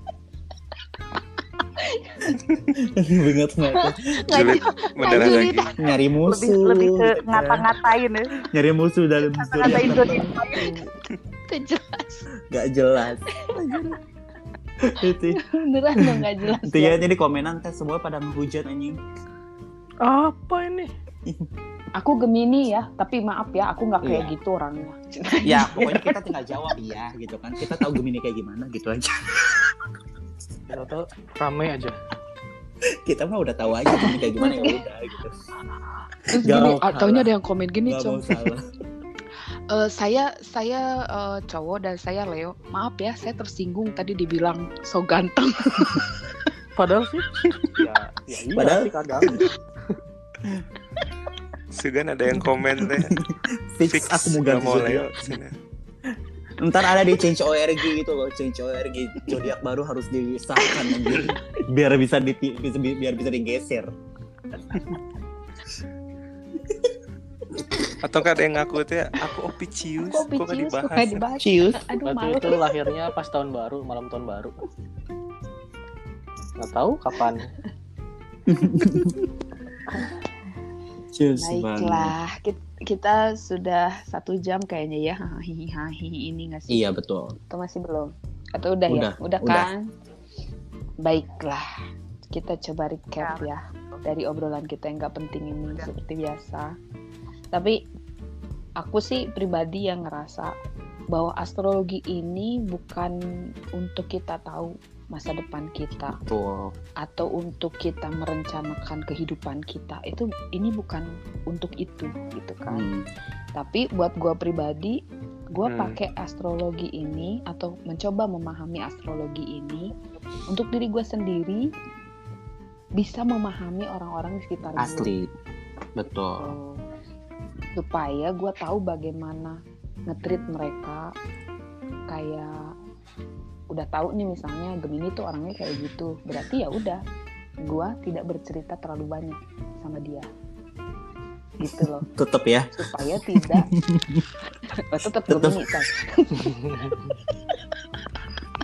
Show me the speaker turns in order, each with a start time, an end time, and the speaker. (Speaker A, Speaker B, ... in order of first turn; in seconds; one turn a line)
Speaker A: 1.6-2.4
Speaker B: 2.7-4.3
Speaker A: 3.7-5.9
Speaker C: 4.3-5.8
Speaker B: 5.8-7.7
Speaker D: 6.2-8.3
Speaker B: 8.5-10.3
Speaker D: 9.4-10.8
Speaker A: 11.5-12.2
Speaker B: 12.5-14.0
Speaker A: 13.4-14.0
Speaker B: 14.8-15.4
Speaker A: 14.8-17.0
Speaker B: 16.0-19.0
Speaker E: 20.0-20.9
Speaker A: 22.0-26.2
Speaker B: 24.0-24.4
Speaker B: 25.4-29.8
Speaker E: 30.7-32.0
Speaker B: 33.1-35.3
Speaker A: 33.9-34.9
Speaker A: 36.3-38.4
Speaker B: 36.4-37.2
Speaker B: 37.9-38.6
Speaker A: 39.7-46.2
Speaker E: 46.8-49.5
Speaker B: 48.5-49.5
Speaker C: 51.7-53.1
Speaker B: 52.8-55.4
Speaker C: 53.9-55.5
Speaker B: 56.6-63.9
Speaker A: 60.7-61.4
Speaker C: 68.0-71.3
Speaker A: 70.0-72.9
Speaker B: 71.4-71.9
Speaker E: 72.0-74.6
Speaker E: 76.6-77.5
Speaker B: 78.5-79.2
Speaker A: 78.8-79.1
Speaker A: 79.9-80.2
Speaker B: 81.1-82.1
Speaker A: 81.4-86.8
Speaker B: 86.7-87.4
Speaker A: 87.5-89.9
Speaker B: 88.9-89.7
Speaker A: 91.0-91.7
Speaker A: 92.3-96.7
Speaker D: 93.2-94.0
Speaker A: 98.8-100.5
Speaker A: 101.1-103.2
Speaker A: 103.8-106.2
Speaker C: 106.3-106.7
Speaker A: 107.0-112.9
Speaker B: 112.7-113.1
Speaker A: 113.6-115.0
Speaker A: 115.5-119.9
Speaker C: 115.6-116.0
Speaker A: 120.5-121.7
Speaker A: 123.0-125.1
Speaker B: 124.8-125.3
Speaker B: 126.0-126.5
Speaker A: 126.4-126.8
Speaker A: 127.8-131.1
Speaker A: 132.1-132.7
Speaker A: 133.7-137.0
Speaker A: 137.6-140.3
Speaker A: 141.6-142.1
Speaker B: 141.7-144.3
Speaker A: 142.8-143.7
Speaker A: 144.8-147.6
Speaker B: 145.0-145.7
Speaker E: 146.4-147.0